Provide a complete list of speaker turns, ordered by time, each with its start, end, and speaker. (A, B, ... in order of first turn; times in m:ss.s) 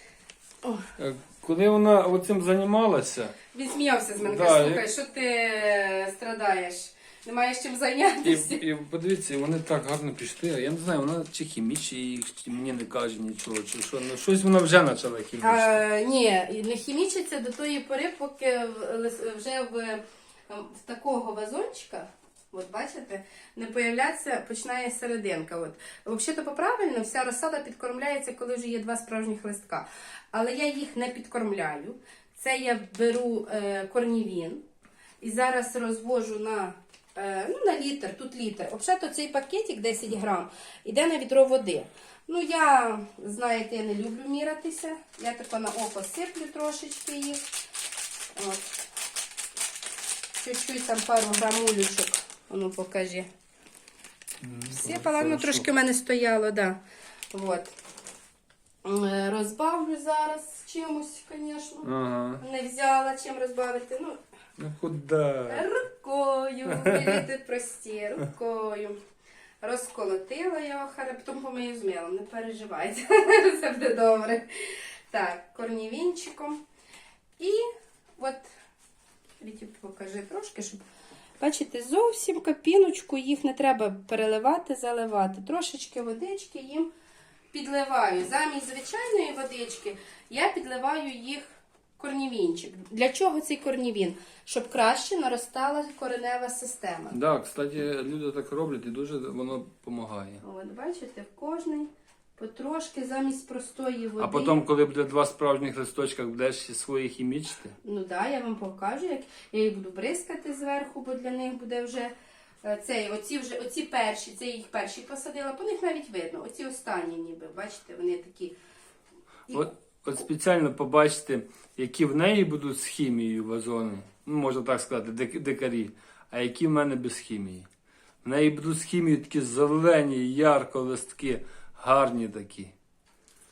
0:01.0-0:03.3 A
0:03.5-0:08.6 B
0:04.2-0:04.8 A
0:08.2-0:15.8 A
0:15.4-0:34.6 B
0:35.2-0:47.4 B
0:48.3-0:48.8 B
0:50.4-0:53.3 B
0:54.4-0:55.6 A
0:54.7-0:56.8 B
0:57.3-0:57.7 B
0:58.8-1:01.9 B
1:01.8-1:02.4 A
1:02.4-1:04.2 B
1:04.6-1:05.7 A
1:05.5-1:09.0 B
1:06.7-1:07.2 A
1:09.6-1:14.5 B
1:15.1-1:16.6 B
1:17.4-1:18.5 B
1:19.4-1:20.8 B
1:21.4-1:26.9 B
1:27.5-1:37.2 B
1:37.1-1:40.4 A
1:40.4-1:44.5 B
1:44.2-1:47.8 A
1:47.8-1:58.5 B
1:59.5-2:07.7 A
2:08.2-2:12.7 A